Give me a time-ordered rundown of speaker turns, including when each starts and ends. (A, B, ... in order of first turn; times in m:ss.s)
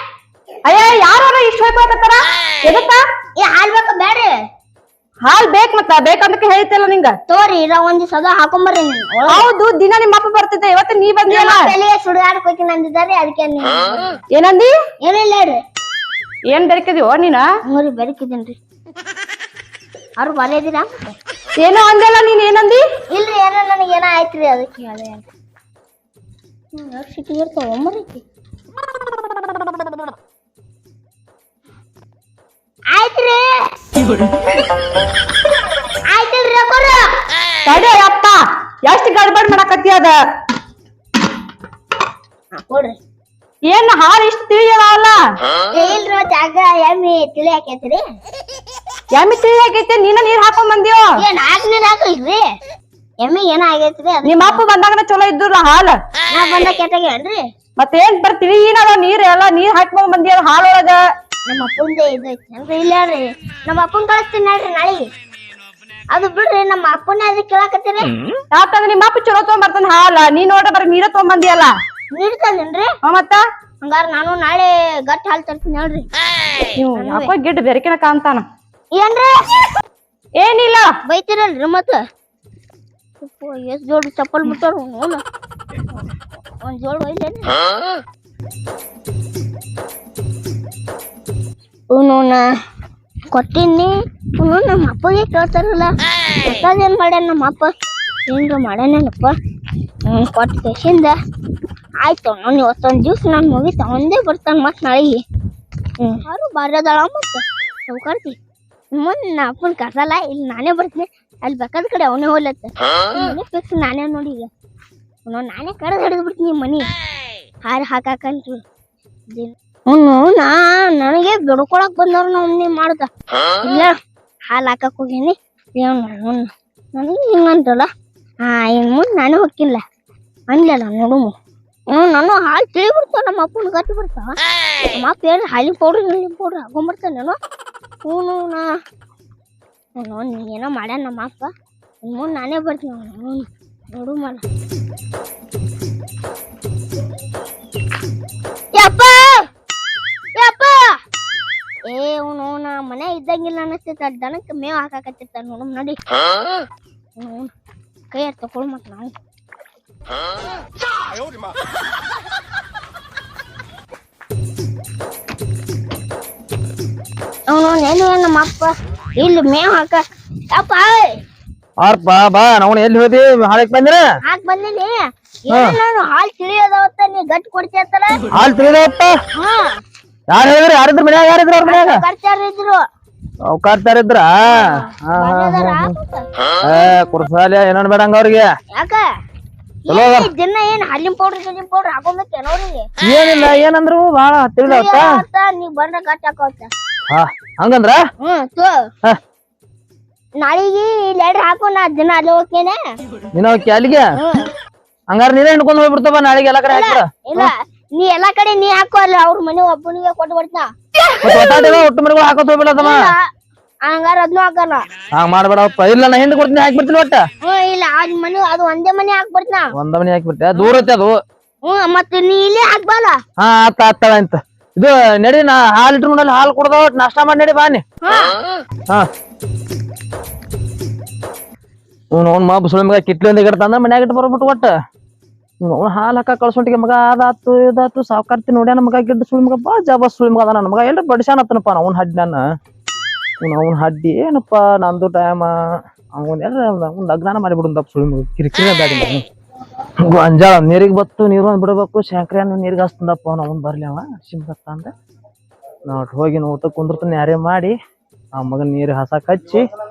0:00.6-0:03.0 A
0:03.4-0:04.3 B
0:05.2-0:07.1 A
0:07.3-0:09.5 B
0:09.3-0:11.7 A
0:11.3-0:14.2 B
0:14.3-0:14.7 A
0:15.0-0:15.6 B
0:16.5-0:17.4 A
0:17.7-0:18.6 B
0:20.2-0:21.2 B
0:21.6-0:22.8 A
0:23.1-0:25.2 B
0:26.7-0:28.2 B
0:32.9-0:33.4 B
0:36.1-0:37.1 B
0:37.6-0:40.2 A
0:42.5-0:43.0 B
0:43.7-0:45.2 A
0:45.7-0:48.0 B
0:49.1-0:51.2 A
0:51.2-0:52.4 B
0:53.2-0:54.6 B
0:54.2-0:56.0 A
0:56.3-0:57.4 B
0:57.8-1:01.0 A
1:01.5-1:05.0 B
1:06.1-1:08.1 B
1:08.5-1:11.7 A
1:12.1-1:12.9 B
1:13.0-1:13.4 A
1:13.8-1:16.1 B
1:16.7-1:18.4 A
1:17.0-1:17.3 B
1:18.9-1:19.3 B
1:20.4-1:20.9 A
1:21.0-1:22.0 B
1:23.2-1:25.2 B
1:26.6-1:27.6 B
1:31.9-1:32.4 B
1:33.3-1:37.7 B
1:38.3-1:39.3 B
1:40.1-1:41.1 B
1:42.0-1:45.2 B
1:46.0-1:48.4 B
1:48.9-1:54.5 B
1:55.2-1:56.9 B
1:57.6-1:58.6 B
1:59.3-2:03.1 B
2:03.6-2:03.9 B
2:04.5-2:07.9 B
2:08.4-2:09.8 B
2:10.5-2:11.3 B
2:11.9-2:14.4 B
2:15.0-2:17.4 B
2:18.0-2:18.7 B
2:20.0-2:21.5 B
2:22.0-2:24.4 B
2:28.7-2:29.4 B
2:30.4-2:30.9 B
2:31.9-2:36.0 B
2:37.2-2:37.5 B
2:38.1-2:39.1 B
2:47.5-2:51.1 B
2:51.8-2:54.0 C
2:54.2-2:58.2 B
2:55.5-2:55.8 C
2:58.3-2:59.2 C
2:59.3-2:59.8 B
3:00.3-3:02.0 C
3:01.6-3:02.8 B
3:03.4-3:05.9 C
3:04.4-3:06.3 B
3:06.6-3:08.5 C
3:08.7-3:09.0 B
3:09.8-3:12.9 B
3:09.9-3:10.3 C
3:13.0-3:15.2 C
3:14.6-3:16.7 B
3:17.1-3:18.0 C
3:18.2-3:18.8 B
3:20.4-3:22.8 B
3:23.4-3:24.1 C
3:24.2-3:24.5 B
3:25.1-3:27.5 C
3:26.7-3:31.9 B
3:31.2-3:33.1 C
3:32.8-3:33.3 B
3:33.8-3:34.8 B
3:35.1-3:37.2 C
3:37.4-3:39.7 B
3:39.8-3:41.2 C
3:41.6-3:43.2 B
3:43.4-3:47.8 C
3:48.0-3:48.4 B
3:52.1-3:54.7 C
3:55.6-4:02.4 C
4:03.4-4:05.6 C
4:06.1-4:09.2 C
4:10.0-4:14.9 C
4:15.9-4:17.7 C
4:18.3-4:19.7 C